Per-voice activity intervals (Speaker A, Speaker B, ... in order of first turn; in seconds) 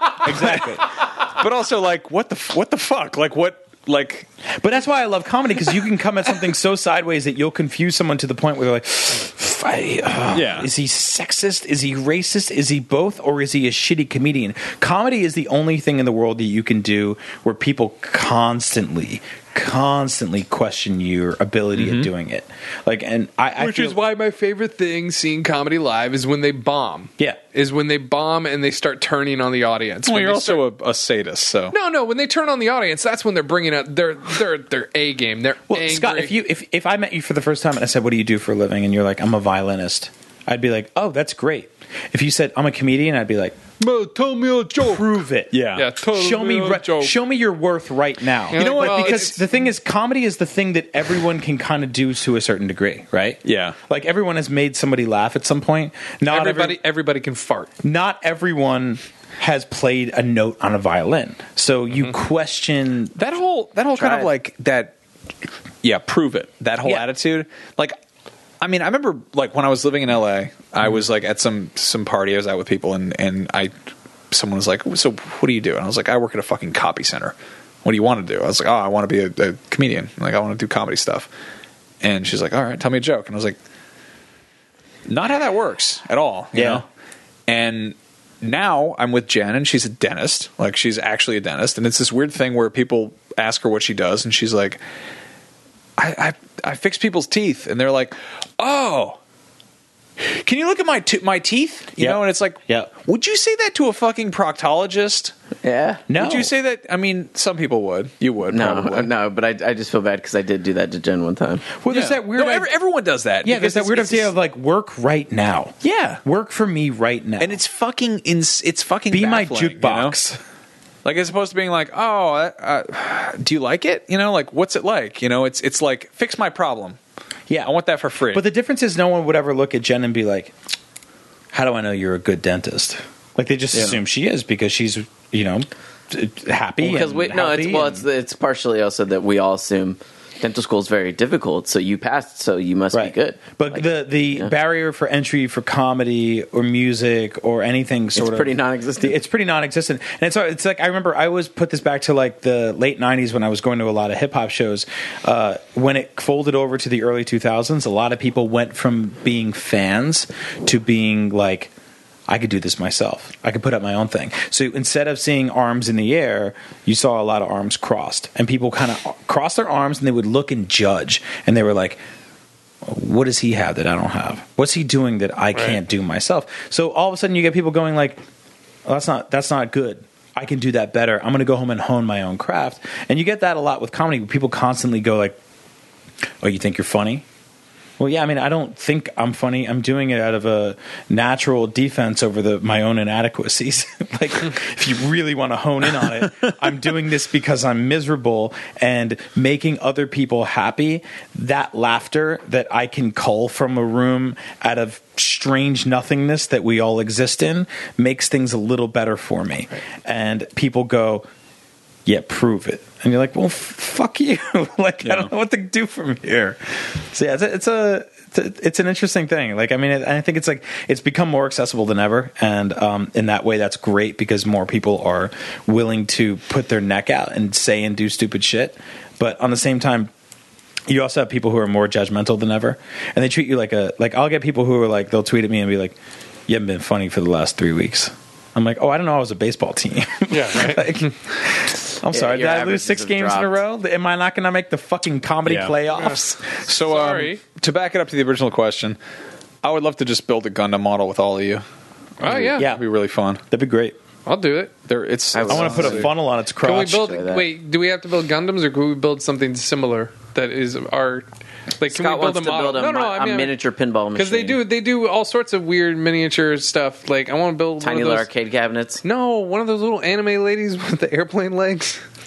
Speaker A: 0.2-0.8, 4.6-24.0, 35.7-43.6, 44.8-56.8, 57.8-63.1, 64.0-64.3, 86.5-86.8, 102.0-102.9, 106.1-106.5, 111.8-112.7, 113.4-117.6, 119.1-120.4, 128.3-130.5, 131.5-138.1, 142.9-161.7, 162.3-172.0, 172.8-178.2, 178.8-185.4, 186.4-187.2, 188.0-211.2, 212.1-230.1, 230.9-235.9, 236.5-246.3, 252.5-252.8, 253.5-253.9, 255.5-257.1
Speaker B: 0.2-4.3, 10.3-10.7, 21.7-22.1, 30.0-31.7, 45.5-45.9, 48.5-48.9, 53.4-53.8, 63.1-64.9, 65.8-68.0, 68.6-73.7, 74.3-81.3, 82.0-83.6, 85.1-86.8, 87.5-94.8, 96.0-99.2, 100.2-105.3, 106.2-109.1, 111.9-114.3, 115.8-116.2, 117.4-120.2, 121.0-127.0, 127.6-128.4, 133.7-134.0, 215.0-215.3, 245.4-245.8, 246.6-249.0, 249.6-251.6, 252.2-253.4, 254.9-256.1
Speaker C: 23.6-30.6, 31.7-36.3, 43.8-45.2, 45.8-47.1, 48.5-49.5, 56.2-57.7, 240.3-241.1, 245.9-247.4, 252.2-252.7, 254.2-254.7, 256.6-261.2, 261.8-263.5, 264.1-268.3, 269.0-272.0
Speaker D: 105.6-106.0, 108.5-111.7, 136.8-144.5, 148.1-149.1, 242.1-243.6, 255.3-256.1, 256.9-257.5, 261.9-264.6, 267.8-269.0